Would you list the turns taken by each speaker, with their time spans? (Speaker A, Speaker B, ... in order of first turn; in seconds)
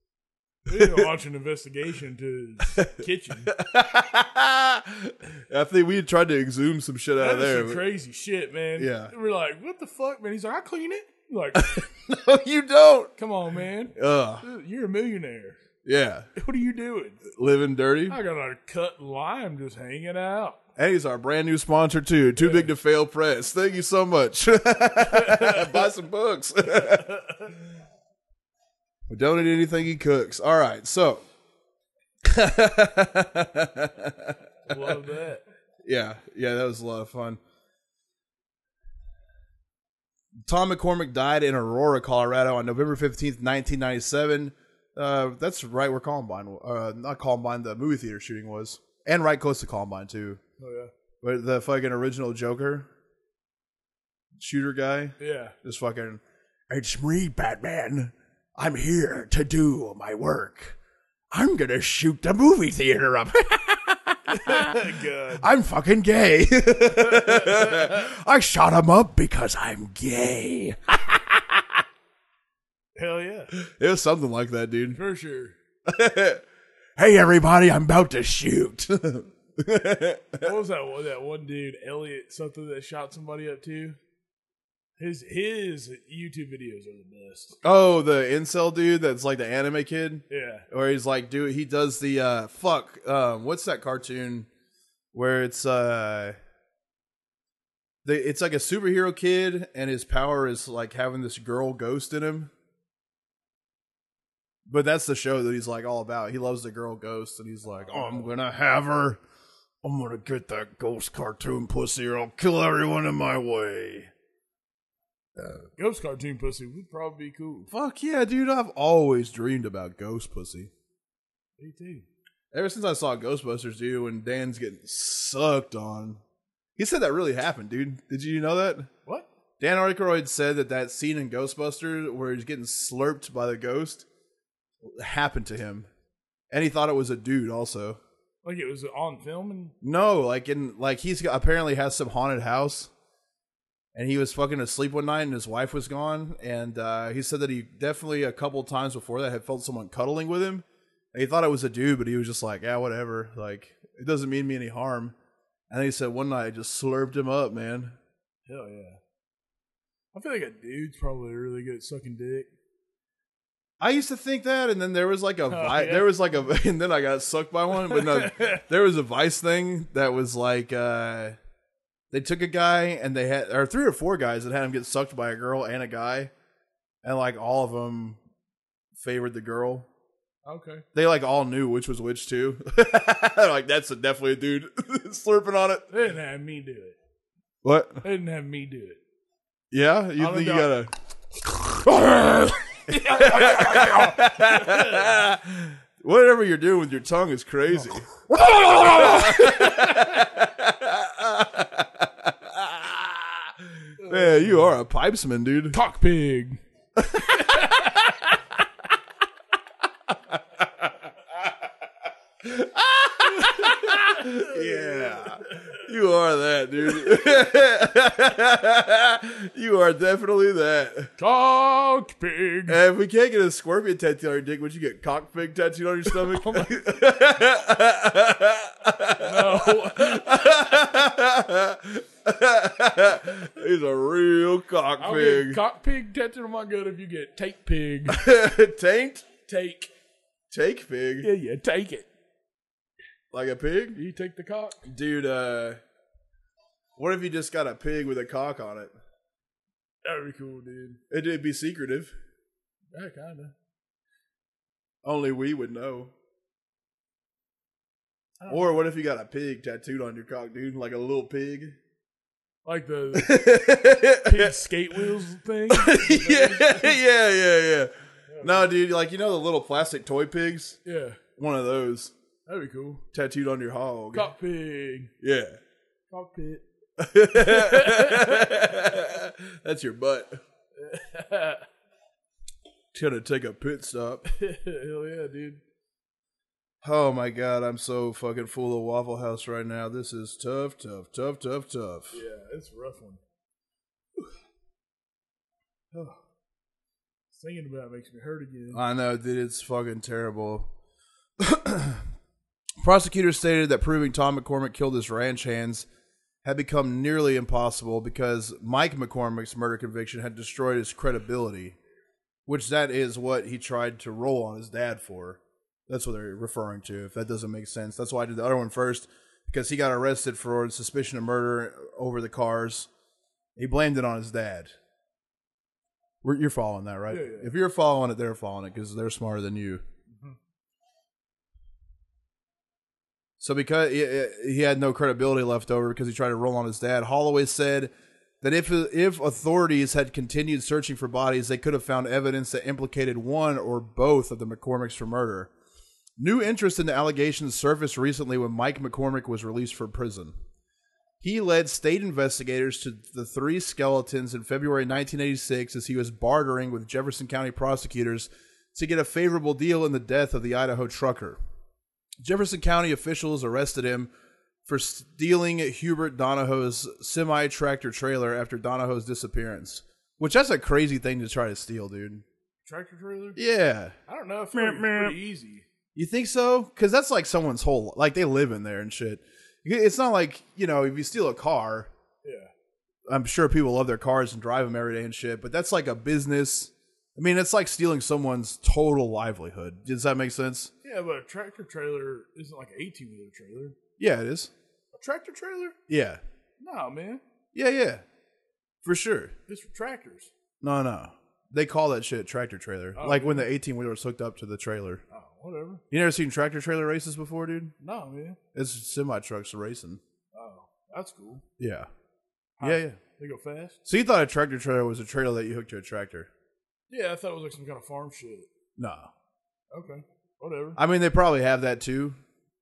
Speaker A: 0.7-3.5, 7.2-11.8, 13.2-15.6, 16.4-17.2, 18.1-20.6, 22.4-22.7, 25.0-25.9, 26.6-27.6, 34.6-35.4, 50.6-50.9, 55.2-55.5, 64.3-65.5, 67.0-68.0, 72.9-73.5, 74.9-75.5, 80.4-84.0, 85.0-87.6, 90.3-90.7, 107.8-108.3, 115.8-117.7, 121.6-122.0, 138.4-139.7, 158.5-159.0, 160.1-162.5, 165.5-166.1, 167.7-168.6, 180.4-180.8, 185.9-187.0, 188.0-189.0, 190.2-190.8, 192.9-195.2, 197.7-198.0, 198.7-200.0, 204.0-204.7, 205.7-206.6, 207.3-208.1, 213.4-215.2, 221.2-222.8, 226.1-226.7, 229.2-230.7, 235.0-238.2, 239.4-239.9, 241.2-242.1, 243.9-244.8, 250.0-251.0, 252.9-253.5, 258.4-258.8, 262.6-263.5, 264.2-267.0, 268.3-268.7, 270.8-271.2, 272.4-273.0, 274.1-275.1, 276.1-276.6, 277.3-278.6, 280.8-281.7, 284.2-285.6, 292.1-293.2, 297.3-298.8, 327.1-327.5, 372.6-373.4, 374.1-375.6, 382.2-382.5, 390.8-393.8, 394.9-395.8, 396.6-397.2, 399.5-400.3, 402.9-403.5, 405.1-405.8, 407.8-408.4, 410.3-411.4, 412.6-413.8, 416.9-418.5, 419.7-420.8
Speaker B: 0.7-1.1, 2.6-7.8, 8.8-9.1, 11.5-13.1, 13.9-14.4, 15.8-16.3, 17.2-18.2, 20.8-27.1, 29.1-31.2, 32.2-34.9, 35.8-37.4, 40.5-50.4, 51.2-52.9, 54.4-60.8, 61.3-71.8, 73.5-75.0, 75.9-76.4, 77.0-80.5, 87.6-94.5, 95.1-96.3, 98.0-102.5, 104.7-109.2, 109.8-114.1, 115.4-115.6, 117.7-120.7, 122.5-126.2, 126.8-128.9, 129.6-134.1, 134.8-135.9, 136.5-138.0, 139.8-142.9, 143.9-155.1, 155.7-157.9, 163.8-171.4, 172.1-176.3, 177.0-178.2, 179.0-179.9, 180.9-185.9, 187.6-188.0, 189.7-205.8, 207.0-208.4, 210.1-210.9, 212.4-221.1, 222.7-235.6, 238.1-239.3, 240.5-241.3, 243.3-244.0, 244.8-245.8, 247.0-248.9, 251.1-252.1, 255.0-256.1, 258.5-261.8, 263.1-264.6, 265.7-270.8, 271.4-272.1, 273.1-274.3, 275.2-275.6, 277.0-280.4, 282.9-284.2, 286.8-292.2, 298.7-300.7, 301.4-302.0, 302.8-305.9, 306.4-311.8, 312.4-322.9, 323.6-324.7, 326.2-329.8, 333.4-345.5, 346.2-350.3, 351.2-361.4, 362.2-364.1, 364.6-372.2, 373.4-373.9, 374.5-375.1, 375.9-381.9, 383.1-390.7, 394.0-394.5, 395.9-396.2, 397.5-398.0, 398.8-399.3, 400.6-405.0, 405.9-407.7, 408.5-410.0, 411.6-411.9, 412.6-413.0, 413.8-416.3, 418.8-419.1, 420.8-422.2